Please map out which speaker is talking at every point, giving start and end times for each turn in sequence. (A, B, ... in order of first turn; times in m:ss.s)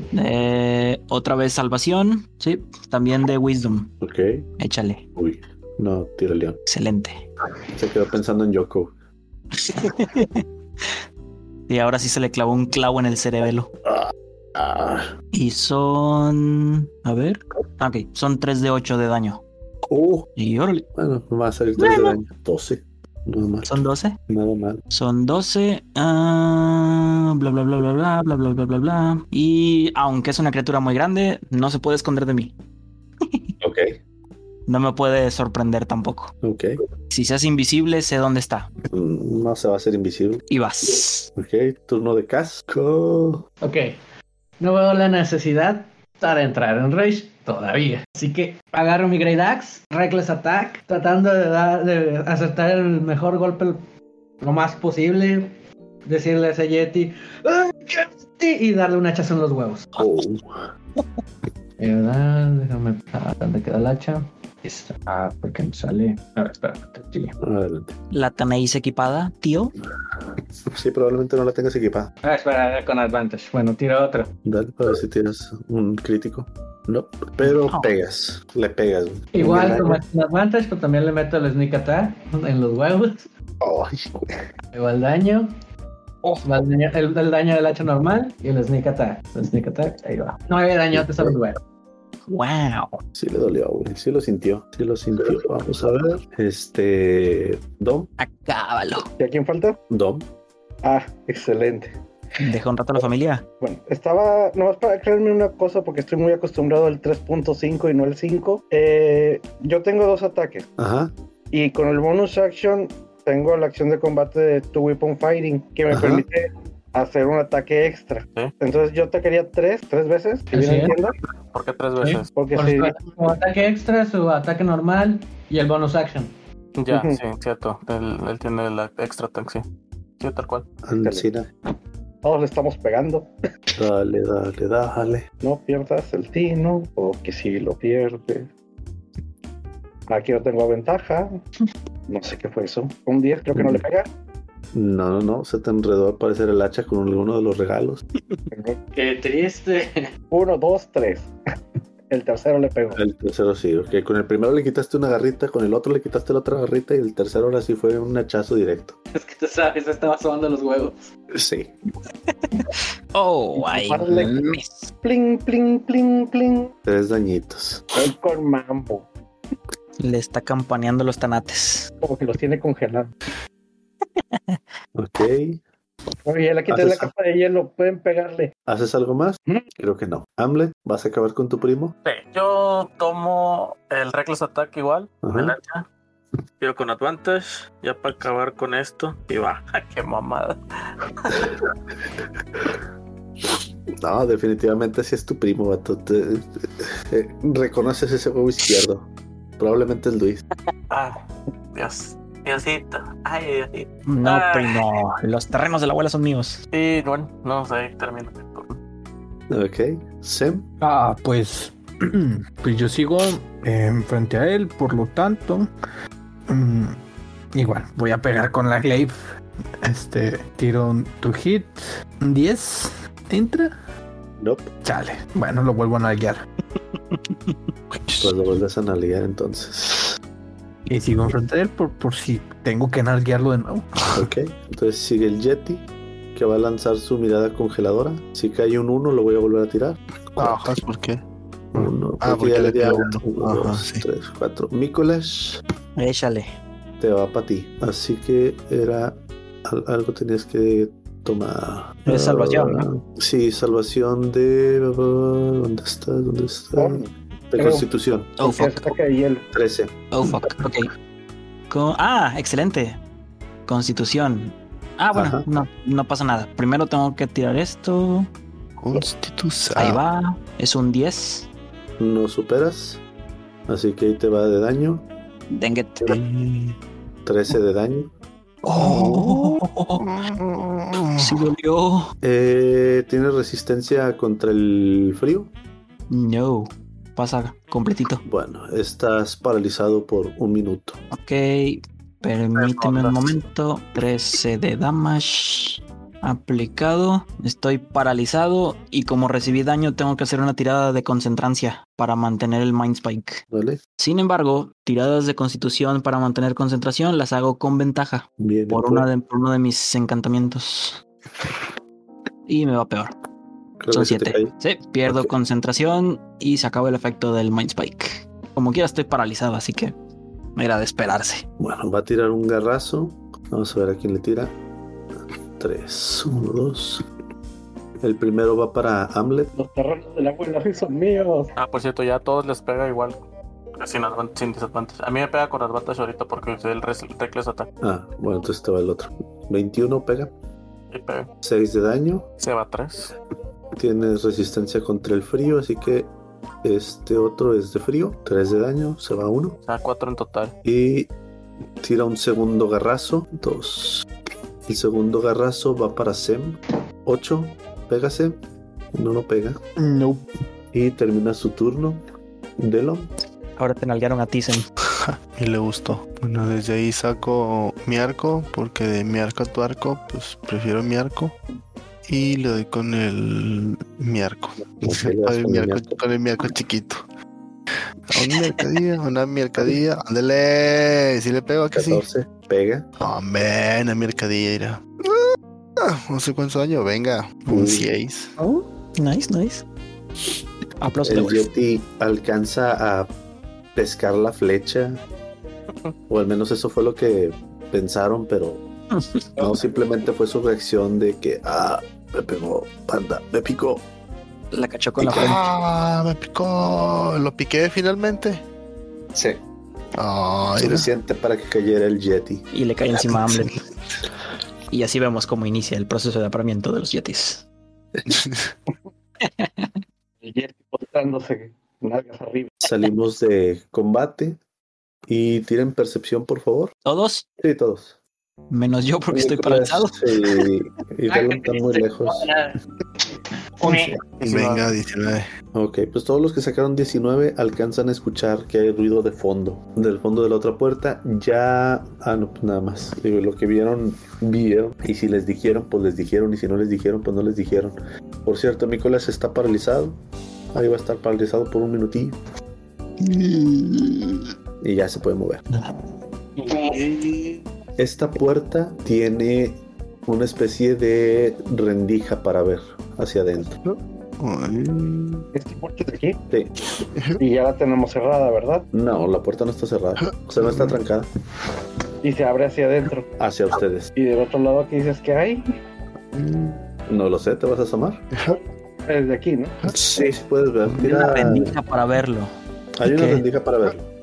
0:00.1-0:03.9 A
0:04.0-0:04.5 B
0:04.6-0:05.0 A
0:05.2-0:06.6 B
0:06.6-0:07.2 A
0:07.8-0:08.9 B
0:09.6-0:10.4 A
0:11.7-0:13.7 A
0:14.6-0:15.1 B
0:15.3-0:19.4 A
0:19.9-0:20.2 B
0:20.3-0:20.9 A
0:21.0-0:24.8 B
0:21.8-0:22.2 A
0:23.6-0:24.2 A
0:24.9-0:32.5 A
0:33.2-0:33.5 A
0:33.6-0:34.0 B
0:34.7-0:36.3 A
0:36.4-0:36.8 B
0:37.1-0:38.7 A
0:38.9-0:40.4 B
0:40.5-0:41.3 A
0:41.4-0:43.4 B
0:43.6-0:43.9 C
0:44.6-0:53.8 C
0:54.4-0:55.5 C
0:56.0-0:59.9 C
1:00.0-1:00.6 B
1:01.8-1:07.4 C
1:07.4-1:08.0 B
1:08.1-1:09.7 A
1:10.7-1:12.1 B
1:12.2-1:14.3 C
1:14.4-1:20.0 B
1:17.4-1:17.9 A
1:19.3-1:23.3 C
1:23.6-1:24.4 B
1:24.7-1:25.5 C
1:26.4-1:31.6 C
1:30.9-1:31.4 B
1:32.3-1:33.0 A
1:33.2-1:38.1 B
1:38.2-1:39.1 A
1:39.2-1:39.8 D
1:39.9-1:40.3 B
1:40.8-1:41.9 D
1:42.4-1:43.4 A
1:43.6-1:50.7 D
1:50.8-1:51.1 B
1:51.5-2:01.1 D
1:55.9-1:56.2 B
2:00.5-2:00.9 C
2:01.5-2:02.3 E
2:02.0-2:06.3 C
2:02.4-2:03.0 D
2:06.8-2:09.6 E
2:06.9-2:07.2 D
2:10.2-2:10.6 E
2:10.8-2:11.5 B
2:12.2-2:13.3 D
2:13.8-2:15.2 B
2:15.4-2:18.5 D
2:20.1-2:21.4 D
2:22.1-2:24.1 D
2:23.5-2:23.8 B
2:24.7-2:28.0 B
2:28.5-2:28.8 D
2:28.9-2:30.1 C
2:30.3-2:31.3 D
2:32.1-2:33.0 D
2:32.9-2:39.0 B
2:39.1-2:41.1 C
2:41.3-2:41.7 B
2:43.1-2:44.9 A
2:43.6-2:44.5 D
2:45.0-2:46.7 D
2:46.8-2:47.8 B
2:47.9-2:49.1 D
2:50.0-2:51.9 A
2:52.0-2:53.1 D
2:55.0-2:55.6 B
2:56.2-2:58.5 D
2:56.7-2:57.1 B
2:58.6-3:01.9 B
3:02.0-3:05.8 E
3:05.2-3:05.5 B
3:06.6-3:10.6 E
3:11.2-3:11.5 E
3:14.0-3:20.4 B
3:20.9-3:21.2 E
3:21.7-3:24.9 E
3:24.0-3:26.6 A
3:26.7-3:28.8 E
3:29.5-3:30.6 B
3:30.8-3:35.7 F
3:36.5-3:37.0 F
3:37.5-3:39.2 F
3:39.8-3:43.7 F
3:44.4-3:44.7 B
3:44.8-3:46.4 F
3:47.9-3:48.2 G
3:48.2-3:50.1 B
3:50.9-3:53.9 F
3:54.1-4:00.6 B
4:00.4-4:01.2 G
4:01.7-4:05.6 B
4:01.8-4:04.0 G
4:06.0-4:06.5 A
4:07.0-4:18.4 B
4:12.0-4:12.9 A
4:16.8-4:17.8 D
4:18.4-4:18.9 A
4:18.4-4:19.5 D
4:19.5-4:20.4 B
4:20.1-4:20.9 A
4:21.7-4:23.0 A
4:23.6-4:28.3 A
4:25.1-4:25.4 B
4:28.8-4:30.0 G
4:29.8-4:31.5 A
4:32.0-4:33.0 B
4:33.7-4:35.0 B
4:35.5-4:36.2 A
4:36.0-4:36.8 G
4:37.2-4:38.1 B
4:38.6-4:40.0 A
4:38.8-4:39.1 B
4:40.0-4:41.5 G
4:41.2-4:42.1 A
4:42.2-4:45.5 B
4:46.1-4:48.2 A
4:48.2-4:51.0 B
4:51.1-5:03.4 A
4:52.6-4:53.3 E
5:03.5-5:03.8 B
5:04.0-5:11.0 A
5:08.4-5:09.1 B
5:12.5-5:13.1 A
5:13.8-5:14.5 B
5:13.9-5:19.9 A
5:15.0-5:15.3 B
5:20.6-5:21.4 A
5:21.6-5:24.5 B
5:25.6-5:27.0 B
5:28.0-5:29.5 B
5:29.5-5:31.5 D
5:31.6-5:33.2 E
5:33.8-5:37.7 E
5:37.8-5:40.3 B
5:40.9-5:41.3 E
5:41.4-5:42.3 B
5:42.4-5:43.1 E
5:43.7-5:46.1 B
5:46.6-5:49.6 B
5:49.7-5:50.5 E
5:50.6-5:51.1 B
5:51.8-5:54.1 B
5:54.7-5:58.4 B
5:58.9-5:59.6 B
5:59.8-6:00.2 F
6:00.7-6:02.0 B
6:02.6-6:03.1 B
6:03.6-6:04.6 A
6:05.0-6:11.4 G
6:12.0-6:17.0 G
6:14.8-6:16.0 B
6:18.1-6:22.0 G
6:18.4-6:18.7 A
6:21.7-6:22.8 B
6:23.0-6:28.3 G
6:27.5-6:27.9 B
6:28.4-6:29.6 A
6:30.8-6:31.5 A
6:31.0-6:33.1 B
6:33.7-6:35.0 B
6:36.1-6:38.6 B
6:38.9-6:39.5 A
6:39.4-6:43.8 B
6:44.5-6:45.5 A
6:45.0-6:45.3 B
6:45.0-6:48.4 G
6:50.0-6:50.9 G
6:50.6-6:52.4 B
6:52.5-6:53.6 A
6:53.1-6:53.5 G
6:54.7-6:57.4 A
6:58.1-6:58.5 G
6:59.2-6:59.7 A
7:00.2-7:02.6 D
7:02.6-7:04.4 B
7:05.1-7:06.7 B
7:06.8-7:07.3 A
7:07.4-7:08.0 B
7:08.5-7:10.4 A
7:09.1-7:12.3 B
7:11.1-7:12.6 C
7:13.6-7:13.9 C
7:13.6-7:15.3 G
7:13.7-7:14.6 A
7:15.5-7:30.0 B
7:30.5-7:32.2 B
7:33.1-7:34.3 G
7:34.6-7:35.4 B
7:37.8-7:43.6 B
7:43.6-7:45.3 G
7:45.3-7:46.2 D
7:46.9-7:47.2 G
7:47.2-7:48.6 D
7:48.7-7:51.1 B
7:50.0-7:50.8 G
7:52.0-7:53.0 D
7:53.2-7:53.9 B
7:53.9-7:55.5 D
7:56.8-7:58.0 B
7:58.1-7:58.4 G
7:58.3-7:59.7 D
7:59.7-8:01.5 B
8:00.8-8:02.3 A
8:02.8-8:03.9 B
8:02.8-8:03.2 A